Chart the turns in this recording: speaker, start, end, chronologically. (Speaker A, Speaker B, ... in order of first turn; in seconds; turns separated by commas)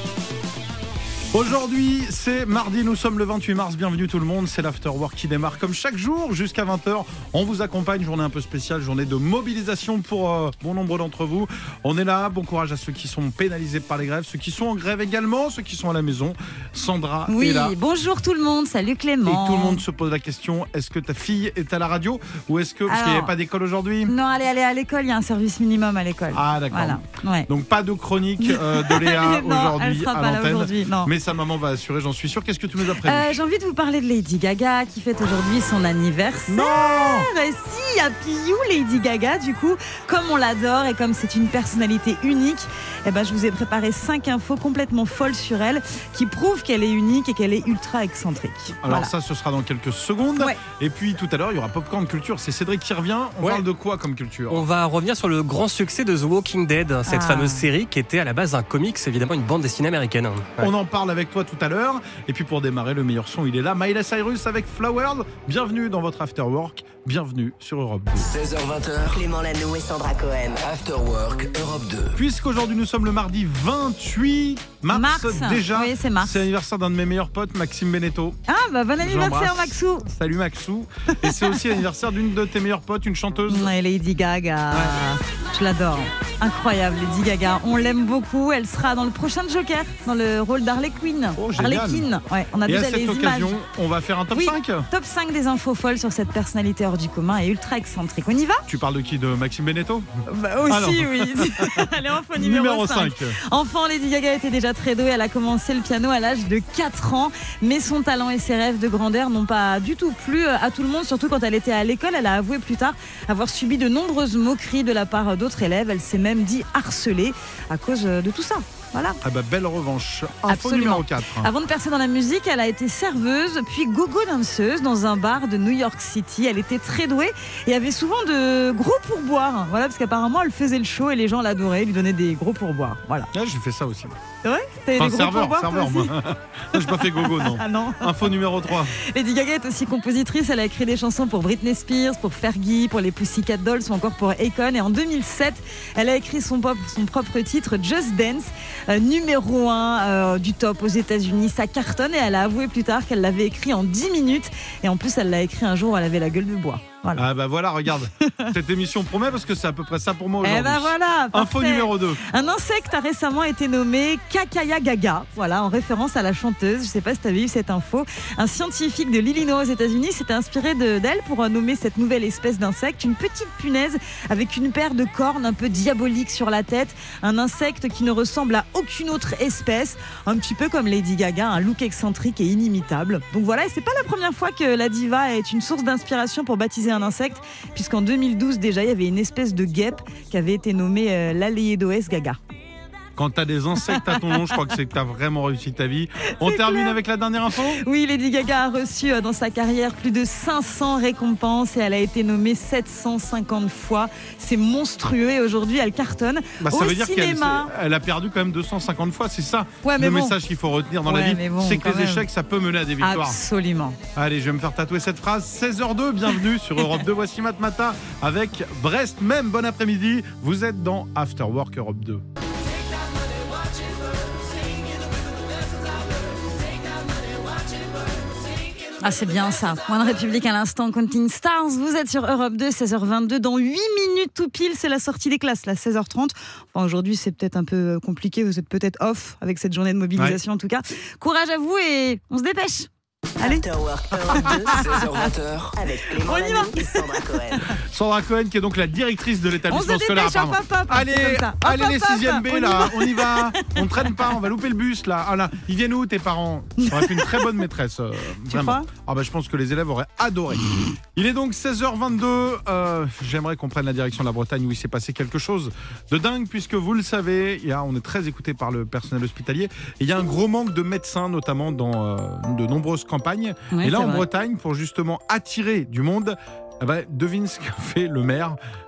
Speaker A: 1.3-17.8, Speaker B: 17.3-19.8, Speaker A: 19.2-24.1, Speaker B: 22.9-23.3, Speaker B: 24.1-27.5, Speaker A: 26.3-33.3, Speaker B: 28.4-31.1, Speaker B: 33.0-49.1, Speaker A: 36.5-37.3, Speaker A: 48.8-54.6, Speaker C: 54.5-60.7, Speaker B: 57.1-57.7, Speaker A: 60.6-68.3, Speaker D: 68.2-69.2, Speaker E: 69.1-70.6, Speaker D: 70.6-72.2, Speaker A: 72.2-78.4, Speaker B: 74.9-76.4, Speaker B: 78.5-80.1, Speaker A: 79.0-83.7, Speaker B: 81.1-81.7, Speaker B: 83.5-93.6, Speaker A: 91.4-92.1, Speaker A: 92.7-94.9, Speaker B: 94.3-98.7, Speaker A: 98.7-100.1, Speaker B: 100.3-119.2, Speaker A: 100.7-103.4, Speaker A: 119.2-121.5, Speaker B: 120.5-133.3, Speaker A: 133.3-134.2, Speaker B: 134.4-136.1, Speaker A: 135.0-138.9, Speaker B: 136.8-138.3, Speaker B: 138.9-157.2, Speaker A: 157.1-162.2, Speaker B: 158.2-158.5, Speaker B: 160.4-192.4, Speaker A: 193.2-197.8, Speaker B: 193.9-194.5, Speaker B: 196.4-197.0, Speaker B: 197.8-207.7, Speaker A: 206.6-213.4, Speaker B: 209.8-210.4, Speaker B: 211.1-212.3, Speaker B: 213.0-214.0, Speaker A: 214.2-222.2, Speaker B: 229.0-242.9, Speaker B: 243.4-243.6, Speaker E: 243.4-244.9, Speaker B: 244.3-245.1, Speaker D: 244.7-245.8, Speaker E: 245.8-247.7, Speaker B: 246.2-247.0, Speaker A: 247.8-278.6, Speaker B: 249.7-254.2, Speaker B: 256.8-257.6, Speaker B: 258.5-258.9, Speaker B: 273.7-274.3